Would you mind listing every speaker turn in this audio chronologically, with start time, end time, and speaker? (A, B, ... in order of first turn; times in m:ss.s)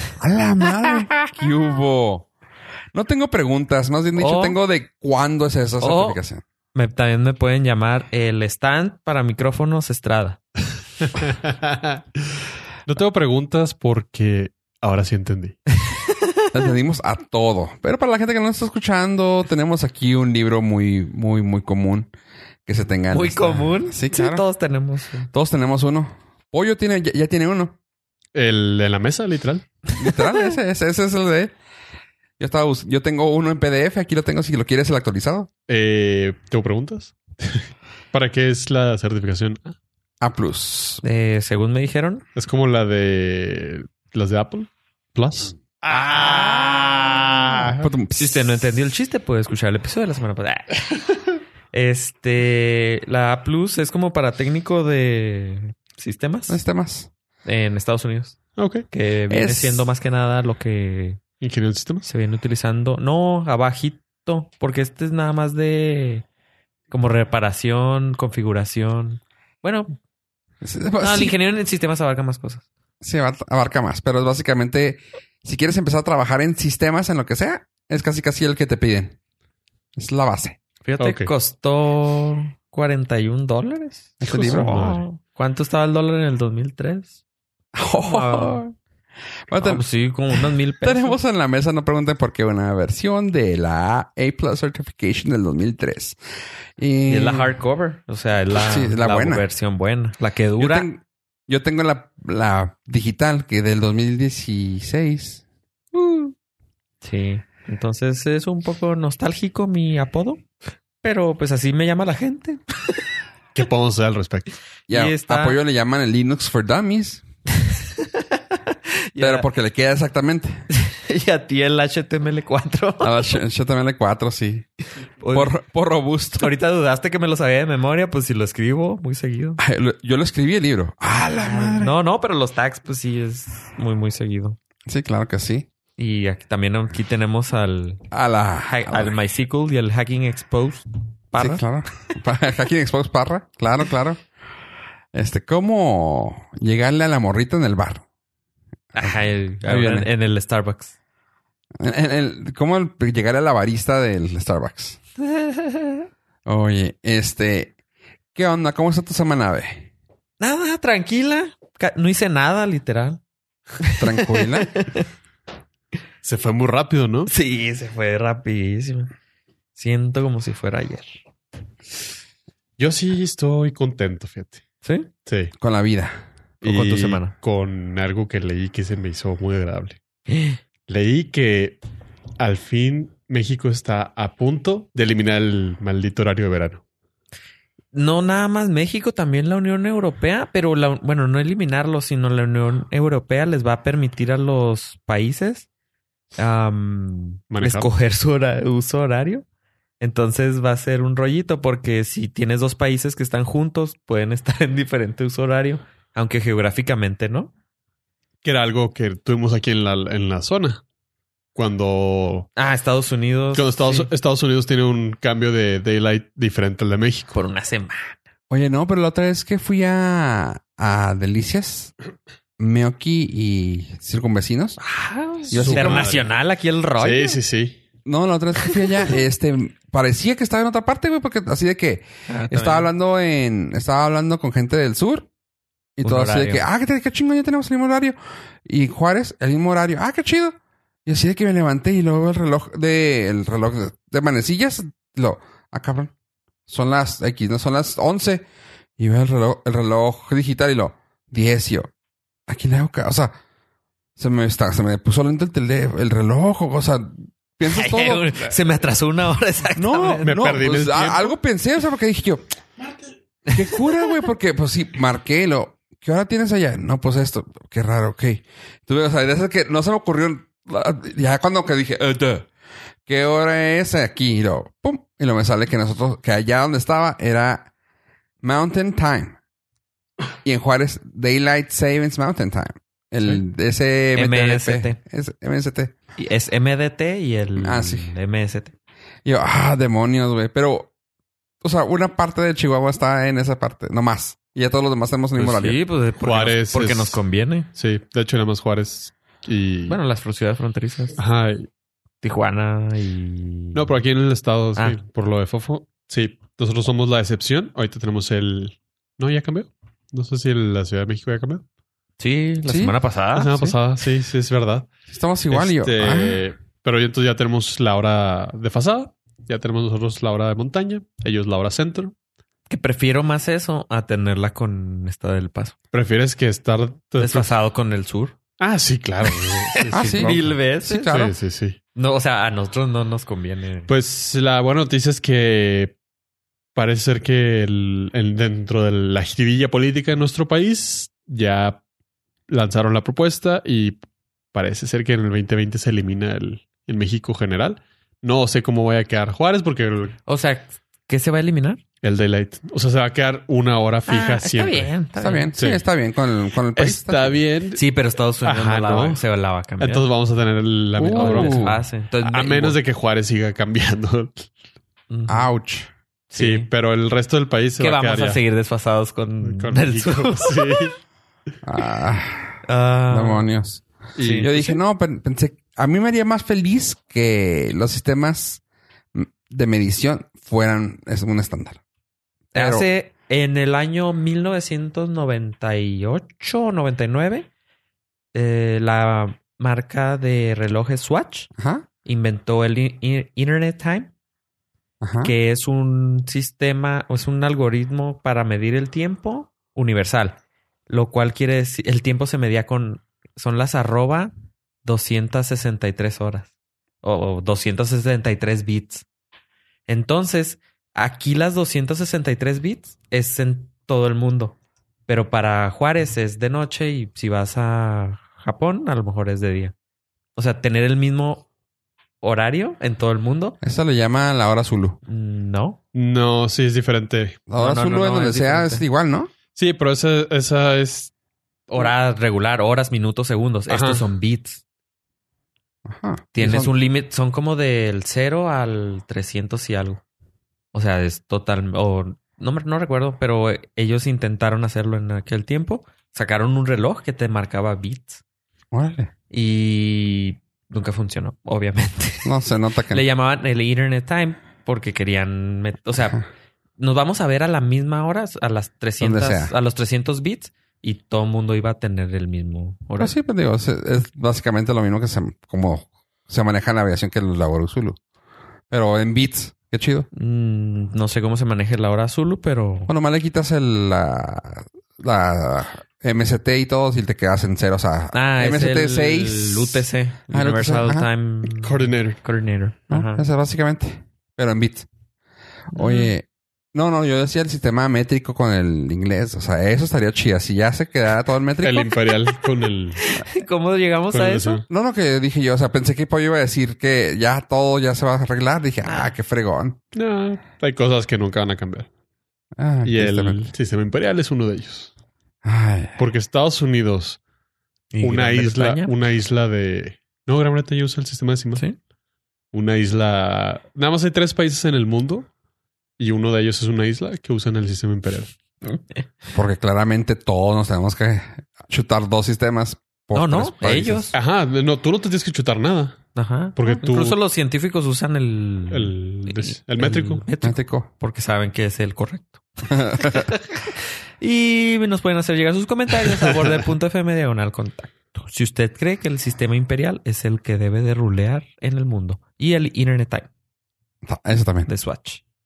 0:00.2-0:02.3 A
0:02.9-0:06.4 A
0:04.2-0:04.6 B
0:05.8-0:06.2 B
0:06.7-0:10.4 B
0:11.0-0:12.0 C
0:12.8-0:15.6 C
0:15.8-0:16.5 B
0:16.5-0:22.1 A
0:22.6-0:24.4 A
0:23.1-0:25.3 B
0:25.3-0:27.8 A
0:28.3-0:29.7 C
0:30.0-0:31.5 A
0:30.0-0:30.4 B
0:32.4-0:35.5 A
0:35.7-0:39.8 C
0:40.2-0:41.0 A
0:41.0-0:42.2 B
0:42.4-0:47.8 C
0:45.9-0:51.2 B
0:47.8-0:48.6 A
0:51.7-0:56.6 B
0:56.5-0:57.1 A
0:57.4-1:01.2 B
0:58.6-0:58.9 C
0:59.3-0:59.8 A
1:01.4-1:02.1 C
1:02.0-1:06.2 B
1:06.9-1:09.9 B
1:10.6-1:11.3 A
1:11.0-1:12.6 B
1:13.0-1:19.2 A
1:20.0-1:20.6 A
1:20.8-1:27.1 B
1:21.0-1:21.3 C
1:24.2-1:24.8 A
1:24.2-1:25.0 C
1:27.7-1:28.7 A
1:27.9-1:28.6 B
1:29.5-1:29.8 A
1:29.6-1:31.2 B
1:30.3-1:36.2 A
1:36.8-1:37.5 A
1:37.1-1:40.9 B
1:38.5-1:39.4 A
1:40.6-1:45.4 A
1:47.0-1:50.4 B
1:51.0-1:53.0 B
1:53.5-1:54.5 C
1:54.9-1:57.2 A
1:54.9-1:55.6 B
1:57.6-1:59.4 B
1:59.2-2:00.6 A
2:00.7-2:03.4 B
2:03.0-2:04.7 A
2:05.2-2:05.5 B
2:05.3-2:06.5 A
2:06.4-2:09.6 B
2:09.6-2:11.9 A
2:11.4-2:14.6 B
2:14.8-2:15.7 A
2:16.0-2:18.0 B
2:18.1-2:19.1 A
2:18.6-2:21.6 B
2:21.4-2:24.2 A
2:25.1-2:28.0 A
2:28.9-2:30.9 B
2:29.0-2:30.1 A
2:31.8-2:35.0 A
2:35.2-2:36.0 B
2:36.4-2:37.7 A
2:38.3-2:39.9 A
2:40.4-2:43.2 B
2:43.8-2:45.1 B
2:44.0-2:44.8 A
2:46.2-2:47.3 C
2:47.3-2:49.1 B
2:49.7-2:51.2 B
2:52.8-2:54.6 C
2:54.8-2:55.1 B
2:55.2-2:55.5 C
2:55.6-2:56.1 A
2:56.6-3:00.0 C
2:56.6-2:57.3 B
3:00.3-3:00.6 B
3:00.9-3:01.8 C
3:02.4-3:06.8 C
3:07.9-3:15.7 B
3:16.4-3:19.4 B
3:17.5-3:17.9 C
3:20.0-3:27.5 B
3:28.4-3:30.8 C
3:31.5-3:32.5 C
3:32.6-3:34.1 B
3:33.5-3:37.4 C
3:37.3-3:38.2 B
3:38.5-3:41.9 A
3:42.6-3:44.8 A
3:44.8-3:47.4 B
3:45.5-3:46.3 C
3:45.5-3:46.1 A
3:47.0-3:47.8 C
3:48.0-3:55.3 A
3:48.6-3:49.1 B
3:52.3-3:52.9 B
3:56.0-4:06.1 A
3:56.0-3:56.6 B
4:06.7-4:08.4 A
4:09.0-4:11.9 A
4:12.5-4:13.3 A
4:14.2-4:18.4 A
4:17.6-4:20.3 B
4:19.8-4:22.4 A
4:20.2-4:21.3 C
4:23.5-4:23.8 B
4:23.5-4:32.5 A
4:33.0-4:37.7 A
4:38.4-4:39.4 A
4:40.4-4:45.9 A
4:44.2-4:45.0 B
4:46.2-4:48.7 B
4:47.6-4:48.1 A
4:49.2-4:50.9 A
4:51.6-4:55.8 A
4:55.4-4:57.7 B
4:56.2-4:57.2 C
4:57.7-5:00.0 C
4:59.9-5:01.2 B
5:01.2-5:01.7 C
5:02.2-5:03.9 B
5:03.7-5:11.6 C
5:12.2-5:13.6 B
5:12.7-5:12.9 A
5:13.3-5:14.9 C
5:15.1-5:16.4 A
5:15.5-5:22.1 C
5:22.7-5:25.8 B
5:25.9-5:27.5 C
5:27.2-5:28.3 B
5:28.6-5:30.5 C
5:29.2-5:31.2 B
5:29.9-5:31.3 A
5:31.1-5:31.8 C
5:31.9-5:33.9 B
5:33.9-5:35.9 C
5:36.7-5:41.8 C
5:42.5-5:44.0 C
5:44.5-5:50.2 C
5:50.2-5:51.8 B
5:52.0-5:54.9 C
5:54.1-5:55.5 B
5:55.2-5:57.4 A
5:55.6-5:55.8 C
5:56.7-5:57.8 C
5:57.7-6:00.1 B
5:58.4-5:59.2 C
5:59.8-6:01.7 C
6:01.0-6:01.8 A
6:01.1-6:02.8 B
6:02.2-6:04.5 C
6:05.1-6:05.5 B
6:05.3-6:05.9 A
6:06.3-6:06.7 B
6:06.4-6:08.4 C
6:07.8-6:10.9 B
6:09.4-6:11.0 C
6:11.6-6:12.6 A
6:12.6-6:13.5 B
6:13.1-6:13.8 A
6:14.2-6:14.8 C
6:14.2-6:14.5 B
6:14.4-6:18.6 A
6:19.1-6:21.8 A
6:22.5-6:27.5 B
6:22.5-6:22.9 A
6:28.3-6:31.5 B
6:31.6-6:31.8 A
6:32.0-6:34.1 B
6:35.0-6:35.3 A
6:35.2-6:40.4 B
6:40.9-6:44.3 B
6:44.8-6:46.5 B
6:47.0-6:49.0 B
6:49.9-6:54.6 B
6:55.1-6:59.7 B
7:00.4-7:01.4 B
7:02.2-7:03.6 B
7:03.6-7:05.0 A
7:05.1-7:05.8 B
7:05.9-7:07.4 C
7:07.5-7:09.3 A
7:07.6-7:08.8 B
7:09.6-7:11.1 C
7:11.7-7:14.6 B
7:13.7-7:14.0 C
7:15.8-7:16.7 A
7:16.3-7:20.0 B
7:20.7-7:28.2 B
7:28.7-7:29.1 A
7:29.3-7:32.3 B
7:32.2-7:33.0 A
7:32.9-7:36.2 B
7:36.8-7:43.1 B
7:39.0-7:39.5 A
7:43.0-7:48.0 A
7:48.7-7:50.1 A
7:50.1-7:52.9 B
7:52.9-8:01.1 A
7:58.1-8:03.2 B
8:01.4-8:02.2 C
8:02.9-8:04.9 A
8:05.7-8:12.0 A
8:05.7-8:06.1 B
8:11.6-8:13.0 C
8:13.0-8:14.6 B
8:14.1-8:14.6 C
8:14.7-8:19.8 A
8:18.8-8:19.1 B
8:19.9-8:21.9 C
8:22.6-8:23.5 A
8:22.8-8:24.9 C
8:25.4-8:26.0 A
8:26.0-8:27.2 C
8:27.9-8:28.9 B
8:28.0-8:31.6 C
8:32.5-8:35.3 C
8:36.0-8:38.3 C
8:38.6-8:39.0 B
8:39.3-8:44.1 A
8:43.1-8:44.1 B
8:44.1-8:46.0 C
8:46.1-9:03.3 B
8:46.6-8:47.2 C
8:48.7-8:50.2 C
8:50.4-8:50.9 A
8:52.7-8:53.3 A
9:04.0-9:04.7 A
9:04.7-9:05.2 B